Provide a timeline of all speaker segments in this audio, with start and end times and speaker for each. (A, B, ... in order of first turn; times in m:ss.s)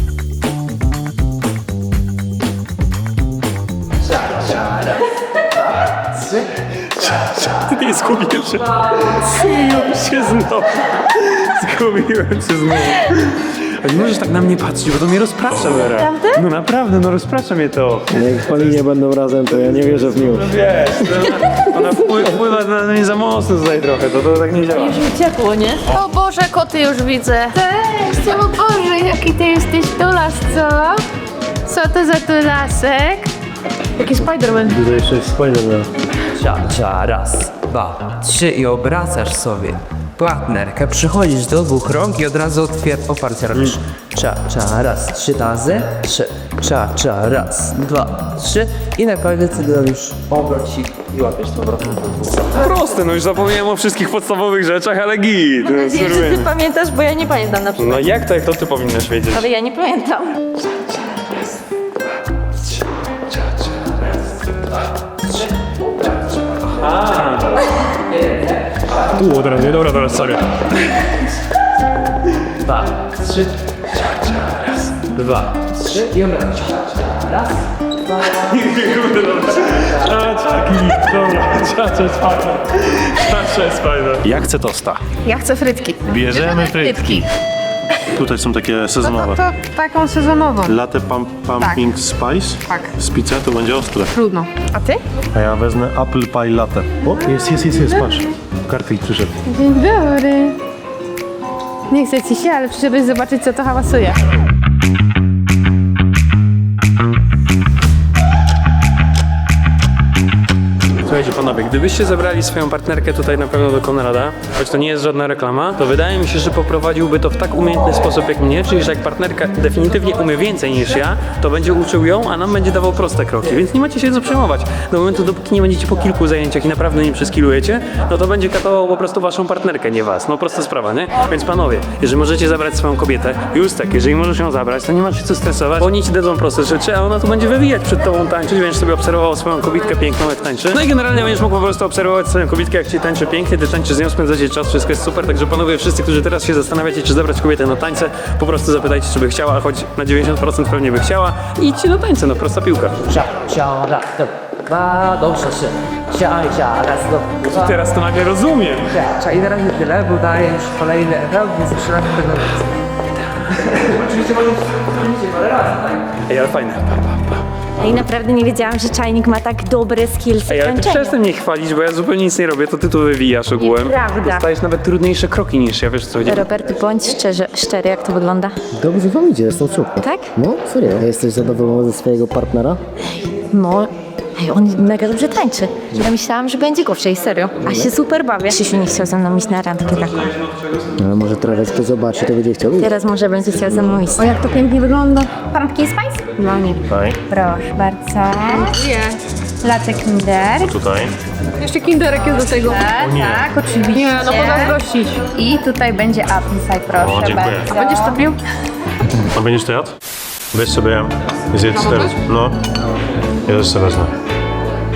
0:07.0-0:18.1 A
0:18.1-0:20.5 B
0:20.1-0:25.0 A
0:24.8-0:25.8 C
0:25.9-0:31.0 D
0:31.7-0:33.3 D
0:34.0-0:34.7 D
0:34.6-0:35.9 E
0:36.4-0:52.5 F
0:52.5-0:56.5 A
0:55.6-0:58.1 C
0:57.8-0:59.5 A
0:59.3-1:00.5 C
1:06.8-1:07.7 A
1:09.2-1:10.4 A
1:12.6-1:13.5 F
1:15.1-1:17.5 F
1:18.4-1:24.3 A
1:24.2-1:25.0 E
1:25.2-1:26.0 G
1:26.0-1:27.3 E
1:26.3-1:27.2 D
1:28.0-1:29.4 E
1:29.0-1:30.8 G
1:30.7-1:34.1 E
1:31.6-1:31.9 G
1:34.1-1:35.0 G
1:35.3-1:39.4 E
1:39.5-1:40.6 G
1:41.9-1:44.2 G
1:51.0-2:33.0 A
2:33.1-2:37.8 F
2:37.4-2:39.0 A
2:38.9-2:42.7 F
2:43.6-2:46.1 F
2:46.3-2:47.3 A
2:47.8-2:51.2 C
2:50.5-2:56.5 A
2:53.6-2:54.5 C
2:56.2-2:58.6 C
2:58.8-3:02.8 B
3:00.0-3:00.3 C
3:03.2-3:10.3 C
3:11.0-3:12.9 B
3:12.8-3:14.5 C
3:14.2-3:16.8 D
3:14.4-3:15.1 G
3:16.9-3:17.2 E
3:17.3-3:18.7 C
3:18.7-3:19.2 G
3:19.6-3:20.7 D
3:20.6-3:21.2 E
3:21.6-3:22.9 G
3:22.6-3:24.8 D
3:22.9-3:23.5 E
3:23.9-3:25.2 G
3:24.3-3:24.6 C
3:25.3-3:28.2 D
3:27.0-3:27.8 E
3:27.7-3:28.4 G
3:29.2-3:29.9 E
3:30.5-3:32.6 E
3:31.7-3:32.2 G
3:33.5-3:34.1 E